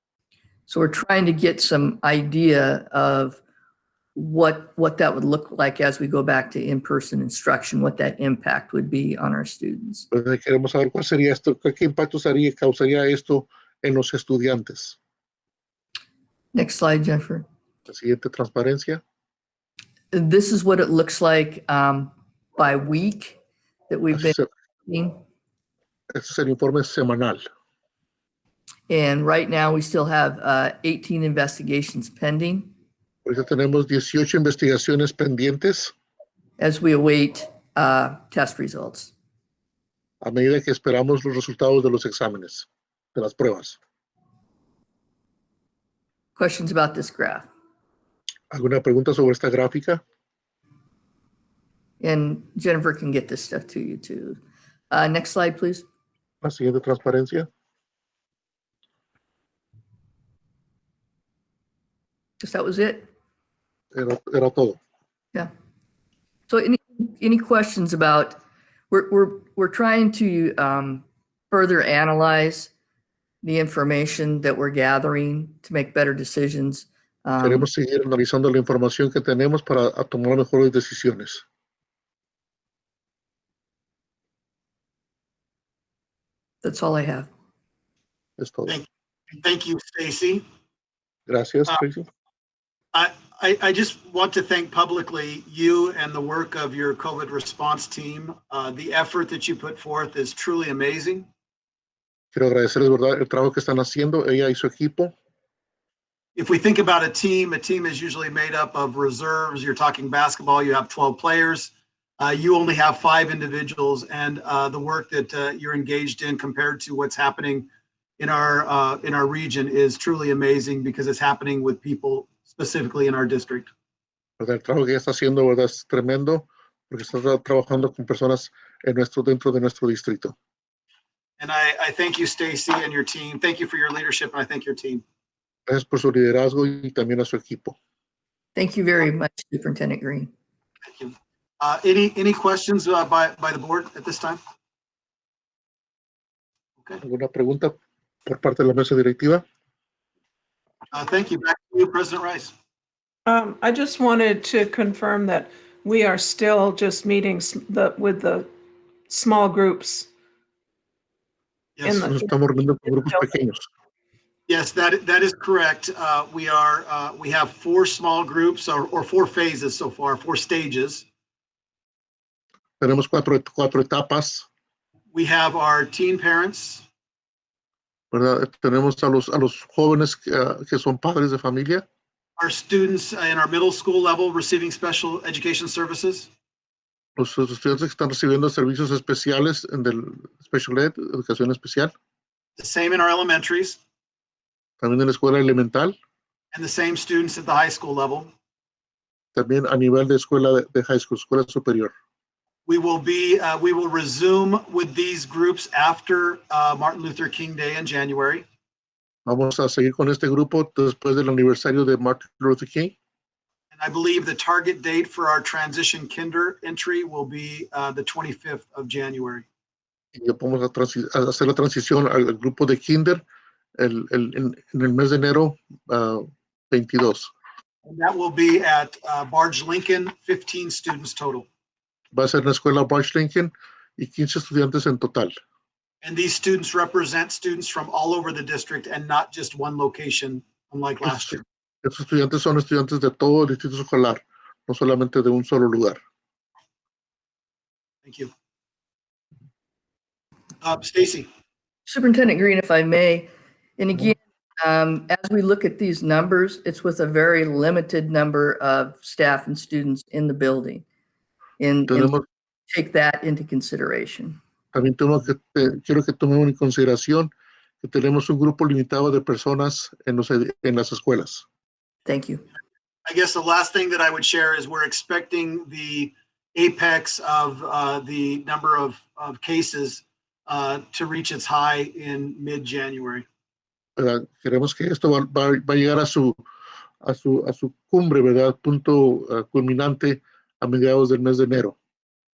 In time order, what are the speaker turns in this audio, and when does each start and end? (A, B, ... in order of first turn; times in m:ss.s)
0:00.7-0:03.4 A
0:04.2-0:10.1 A
0:10.1-0:15.0 B
0:16.5-0:17.5 A
0:17.9-0:19.0 B
0:20.1-0:23.4 A
0:23.9-0:25.2 A
0:24.2-0:24.5 B
0:26.2-0:27.4 B
0:28.9-0:32.7 A
0:33.2-0:35.9 B
0:36.6-0:39.1 A
0:40.2-0:43.8 B
0:46.4-0:47.5 A
0:48.5-0:50.0 B
0:52.0-0:54.4 A
0:54.9-0:55.9 A
0:56.4-0:57.5 B
1:02.4-1:03.1 A
1:03.9-1:04.8 B
1:06.5-1:12.7 A
1:13.4-1:17.7 A
1:17.4-1:21.4 B
1:26.6-1:27.3 A
1:28.4-1:28.8 B
1:28.7-1:30.4 C
1:31.3-1:32.1 B
1:32.9-1:41.3 C
1:42.3-1:45.1 B
1:46.4-1:57.7 C
1:58.2-2:03.7 C
2:04.4-2:10.4 B
2:11.4-2:15.0 C
2:15.7-2:17.8 B
2:18.6-2:20.3 A
2:20.9-2:24.4 C
2:27.0-2:29.4 B
2:30.9-2:32.5 C
2:33.3-2:38.5 D
2:39.1-2:40.1 D
2:41.8-2:42.4 D
2:42.0-2:43.7 B
2:42.9-2:43.2 D
2:44.5-2:51.0 C
2:52.8-2:54.5 B
2:55.1-2:56.8 C
2:58.1-3:01.8 B
3:02.4-3:06.3 C
3:07.2-3:11.9 B
3:12.6-3:13.8 C
3:14.8-3:15.9 B
3:16.5-3:18.3 C
3:19.4-3:21.9 B
3:22.7-3:28.5 C
3:29.3-3:33.0 B
3:33.7-3:39.5 C
3:40.2-3:43.2 B
3:43.8-3:47.3 B
3:47.9-3:51.5 C
3:52.1-3:55.3 B
3:56.0-4:01.4 C
4:01.0-4:06.0 B
4:08.0-4:08.3 C
4:10.6-4:11.3 C
4:11.9-4:20.8 A
4:21.6-4:22.2 A
4:21.9-4:22.2 B
4:22.7-4:24.4 A
4:24.7-4:27.3 B
4:27.8-4:31.4 B
4:32.1-4:32.4 A
4:33.1-4:43.3 C
4:44.0-4:46.4 B
4:47.0-4:51.8 B